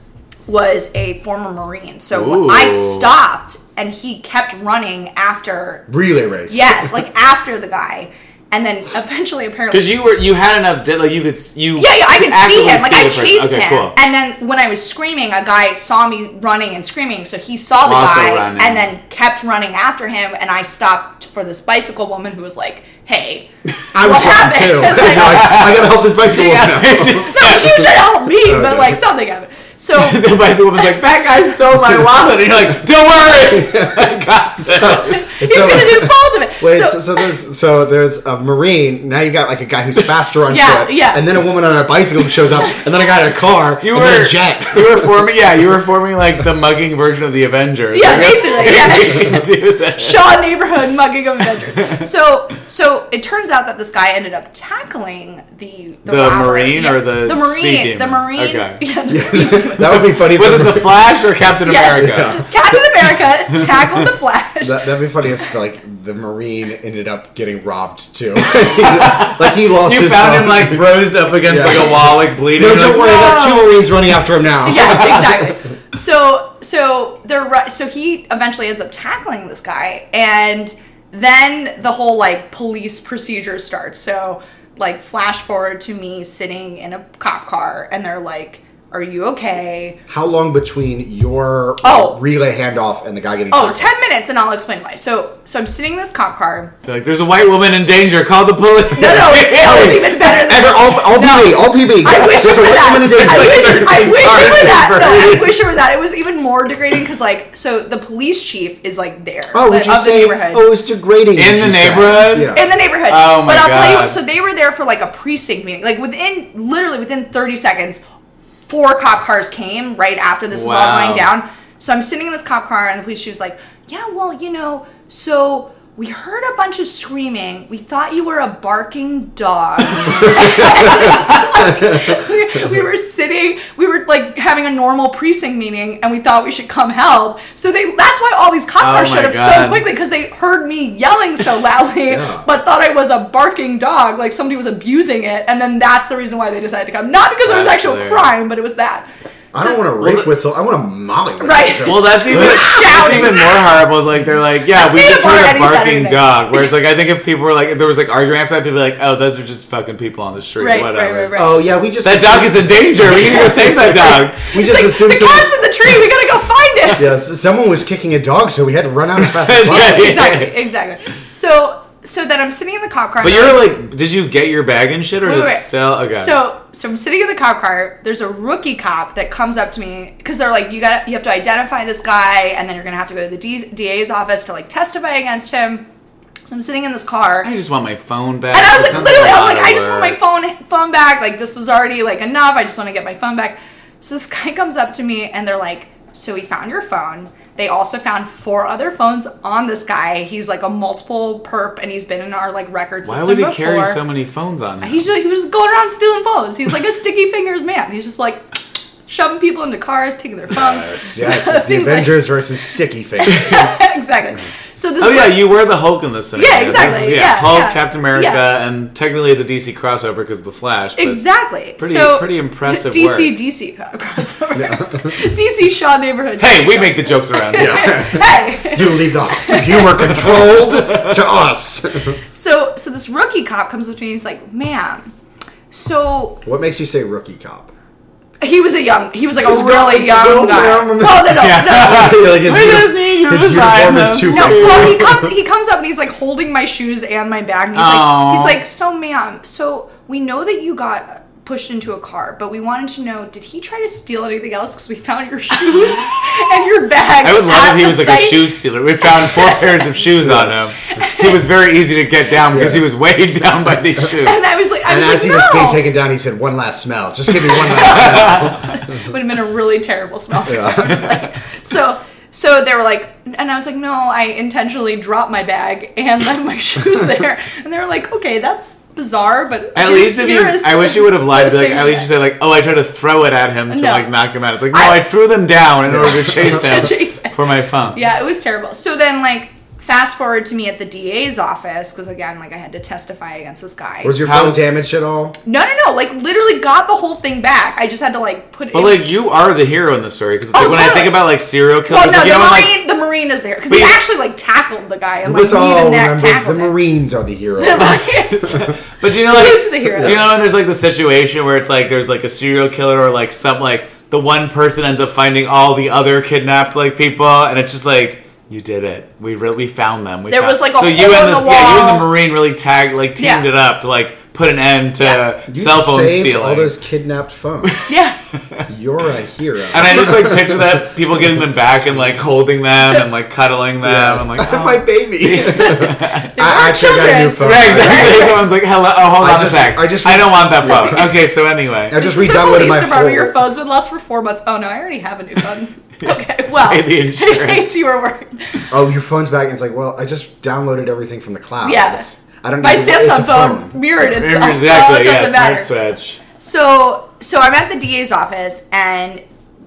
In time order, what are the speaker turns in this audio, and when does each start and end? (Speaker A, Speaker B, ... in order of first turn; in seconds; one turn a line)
Speaker A: 0.5-5.8
Speaker B: 2.1-3.1
Speaker C: 5.9-6.9
Speaker A: 6.5-9.9
Speaker B: 9.7-13.9
Speaker A: 11.8-25.6
Speaker B: 17.8-18.9
Speaker C: 23.9-27.7
Speaker B: 25.0-28.0
Speaker A: 27.2-30.2
Speaker C: 28.4-29.0
Speaker B: 29.9-35.8
Speaker C: 33.5-45.1
Speaker A: 35.1-37.2
Speaker A: 40.5-41.2
Speaker B: 43.8-50.4
Speaker A: 47.9-59.9
Speaker B: 51.7-52.0
Speaker B: 56.0-58.8
Speaker C: 59.1-61.0
Speaker B: 59.8-62.4
Speaker A: 61.6-64.8
Speaker C: 61.9-62.5
Speaker C: 64.6-75.3
Speaker B: 68.5-73.7
Speaker A: 73.0-73.5
Speaker A: 74.6-90.0
Speaker B: 74.8-75.4
Speaker C: 90.1-93.8
Speaker A: 91.8-92.2
Speaker A: 93.5-96.7
Speaker B: 96.8-100.4
Speaker A: 98.9-110.7
Speaker C: 99.6-105.1
Speaker B: 102.8-105.6
Speaker C: 109.5-112.7
Speaker B: 111.3-114.2
Speaker A: 112.5-118.0
Speaker A: 118.7-149.8
Speaker B: 120.5-121.3
Speaker B: 130.2-131.4
Speaker B: 138.8-139.9
Speaker C: 142.1-142.4
Speaker B: 147.4-148.3
Speaker C: 149.5-153.1
Speaker B: 150.0-150.3
Speaker A: 151.4-153.5
Speaker B: 151.8-161.3
Speaker A: 154.7-156.7
Speaker A: 160.6-161.6
Speaker C: 161.3-165.6
Speaker B: 162.0-164.4
Speaker A: 164.4-167.1
Speaker C: 167.0-170.1
Speaker B: 169.2-170.5
Speaker A: 169.7-173.8
Speaker B: 173.2-176.4
Speaker A: 175.2-185.8
Speaker A: 186.4-187.5
Speaker B: 187.4-190.2
Speaker A: 188.5-204.0
Speaker B: 203.0-205.1
Speaker A: 204.8-208.4
Speaker A: 209.1-212.2
Speaker C: 210.5-213.7
Speaker A: 213.2-215.5
Speaker B: 215.0-221.2
Speaker A: 216.3-218.4
Speaker A: 221.0-230.2
Speaker B: 221.8-223.4
Speaker C: 224.6-225.2
Speaker B: 226.4-228.1
Speaker C: 227.6-232.2
Speaker B: 230.3-231.1
Speaker A: 232.3-235.1
Speaker A: 235.7-236.4
Speaker C: 236.4-237.7
Speaker A: 238.4-242.4
Speaker C: 239.3-245.3
Speaker B: 241.2-245.1
Speaker A: 244.2-260.0
Speaker B: 247.7-248.6
Speaker B: 257.2-264.4
Speaker C: 260.2-260.7
Speaker A: 260.9-261.4
Speaker C: 262.5-262.9
Speaker A: 264.1-265.8
Speaker C: 264.9-269.0
Speaker A: 267.5-282.1
Speaker B: 267.9-268.5
Speaker C: 270.4-271.0
Speaker B: 279.7-288.0
Speaker A: 283.7-284.1
Speaker A: 284.7-285.0
Speaker C: 285.9-286.8
Speaker A: 286.3-287.4
Speaker A: 287.9-294.2
Speaker C: 294.0-295.4
Speaker B: 294.2-294.7
Speaker A: 295.4-299.1
Speaker B: 298.7-302.8
Speaker A: 300.5-301.2
Speaker A: 301.9-306.8
Speaker B: 303.7-304.0
Speaker C: 305.2-308.0
Speaker A: 307.6-310.4
Speaker B: 307.8-326.7
Speaker C: 310.0-310.4
Speaker A: 320.3-322.1
Speaker A: 323.2-323.5
Speaker A: 325.0-325.2
Speaker C: 325.5-327.9
Speaker B: 327.6-328.7
Speaker A: 327.9-328.1
Speaker C: 328.7-330.6
Speaker B: 329.7-336.3
Speaker C: 333.8-338.5
Speaker A: 335.4-338.5
Speaker B: 337.4-342.0
Speaker C: 339.2-341.1
Speaker A: 340.7-341.1
Speaker C: 341.9-343.4
Speaker A: 341.9-348.6
Speaker B: 346.0-347.7
Speaker C: 348.7-353.9
Speaker A: 351.6-355.7
Speaker B: 354.0-356.2
Speaker A: 356.4-359.2